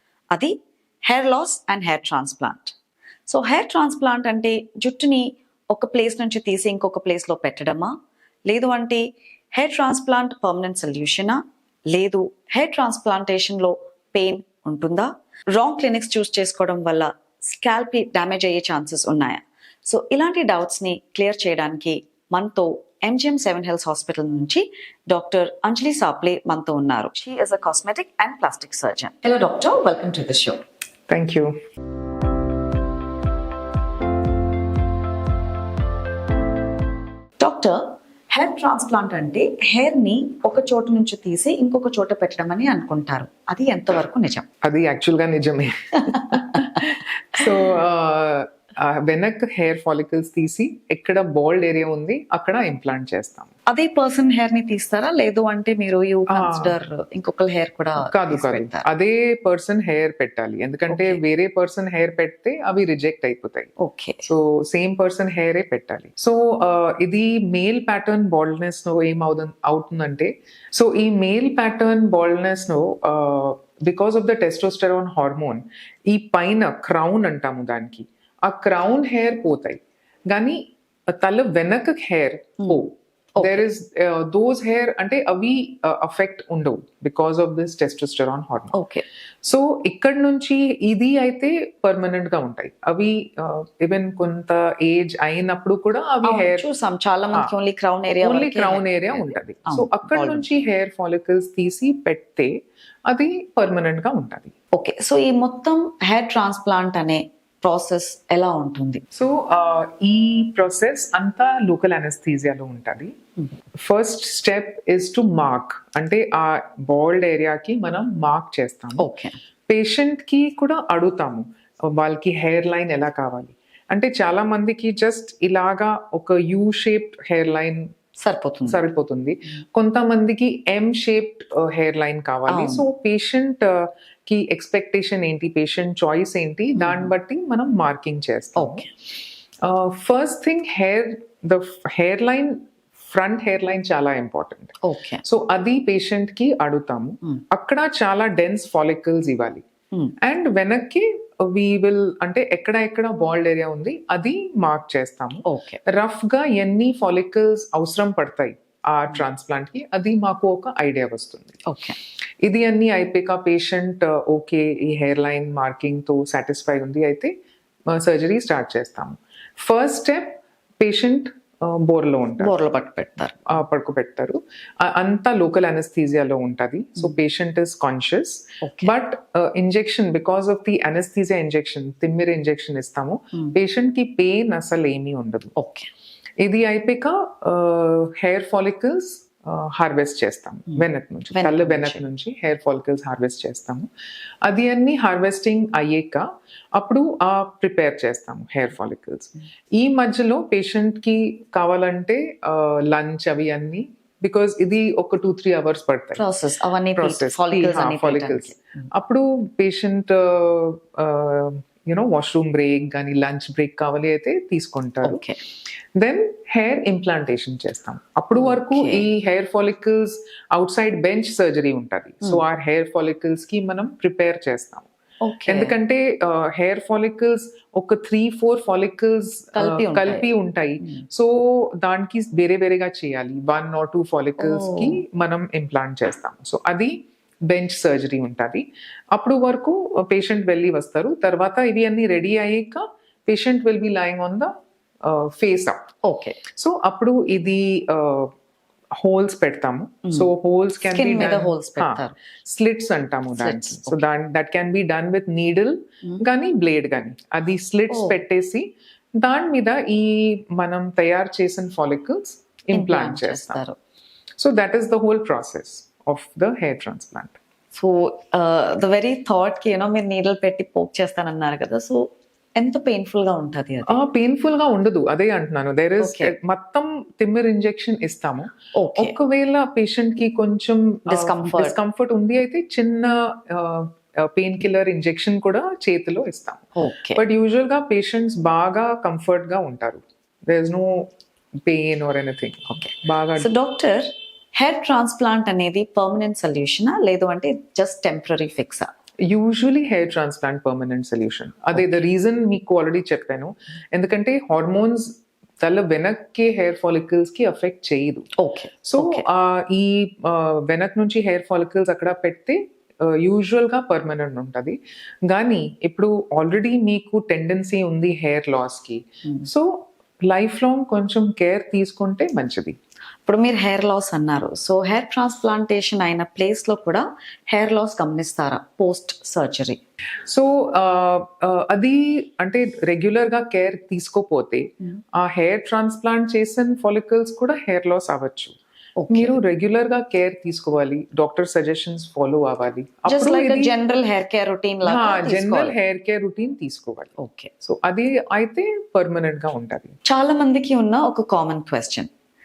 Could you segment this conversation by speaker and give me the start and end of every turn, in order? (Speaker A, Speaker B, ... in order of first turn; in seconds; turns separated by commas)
Speaker A: 0.3-2.7, Speaker A: 3.3-7.9, Speaker A: 8.5-30.6, Speaker B: 31.1-31.6, Speaker A: 37.4-44.5, Speaker B: 44.6-53.5, Speaker A: 46.3-46.6, Speaker A: 53.7-58.9, Speaker B: 56.3-56.8, Speaker B: 58.0-63.7, Speaker A: 60.9-61.2, Speaker A: 63.8-64.3, Speaker B: 64.2-88.7, Speaker A: 83.4-83.7, Speaker A: 88.7-89.0, Speaker B: 89.4-96.7, Speaker A: 96.2-100.5, Speaker B: 98.2-102.5, Speaker B: 103.1-104.5, Speaker A: 104.7-109.0, Speaker B: 109.1-113.1, Speaker B: 113.8-119.1, Speaker A: 119.0-119.3, Speaker B: 119.7-127.9, Speaker A: 128.2-128.8, Speaker B: 128.7-138.9, Speaker A: 132.5-132.8, Speaker A: 136.8-137.1, Speaker A: 138.6-138.9, Speaker B: 139.6-149.6, Speaker A: 144.8-145.2, Speaker B: 150.2-161.6, Speaker A: 155.4-155.8, Speaker A: 161.7-162.0, Speaker B: 162.4-167.3, Speaker B: 167.9-172.5, Speaker A: 172.4-173.5, Speaker B: 173.5-185.5, Speaker A: 178.6-178.9, Speaker A: 185.6-185.9, Speaker B: 186.4-193.9, Speaker A: 190.7-192.0, Speaker B: 194.4-206.2, Speaker A: 206.2-208.9, Speaker B: 206.9-215.2, Speaker A: 215.0-215.4, Speaker B: 215.9-224.9, Speaker A: 218.3-219.1, Speaker A: 225.2-225.8, Speaker B: 225.5-236.9, Speaker A: 229.5-230.2, Speaker A: 230.8-231.0, Speaker A: 234.4-235.0, Speaker B: 237.5-244.5, Speaker B: 245.0-245.8, Speaker A: 246.0-246.4, Speaker B: 246.6-248.3, Speaker B: 249.0-263.6, Speaker A: 250.8-252.2, Speaker A: 253.3-254.1, Speaker A: 257.9-258.2, Speaker A: 262.7-263.8, Speaker B: 264.4-267.3, Speaker A: 267.7-274.0, Speaker B: 273.9-291.1, Speaker A: 276.0-276.3, Speaker A: 278.7-279.1, Speaker A: 281.1-281.8, Speaker A: 286.8-287.2, Speaker B: 291.7-293.5, Speaker A: 292.7-298.9, Speaker B: 299.2-308.3, Speaker A: 308.4-309.2, Speaker B: 308.8-322.8, Speaker A: 323.2-329.8, Speaker B: 330.3-338.6, Speaker A: 339.0-339.4, Speaker B: 339.1-343.7, Speaker A: 343.1-345.8, Speaker B: 344.8-349.9, Speaker A: 347.2-347.5, Speaker A: 350.1-352.1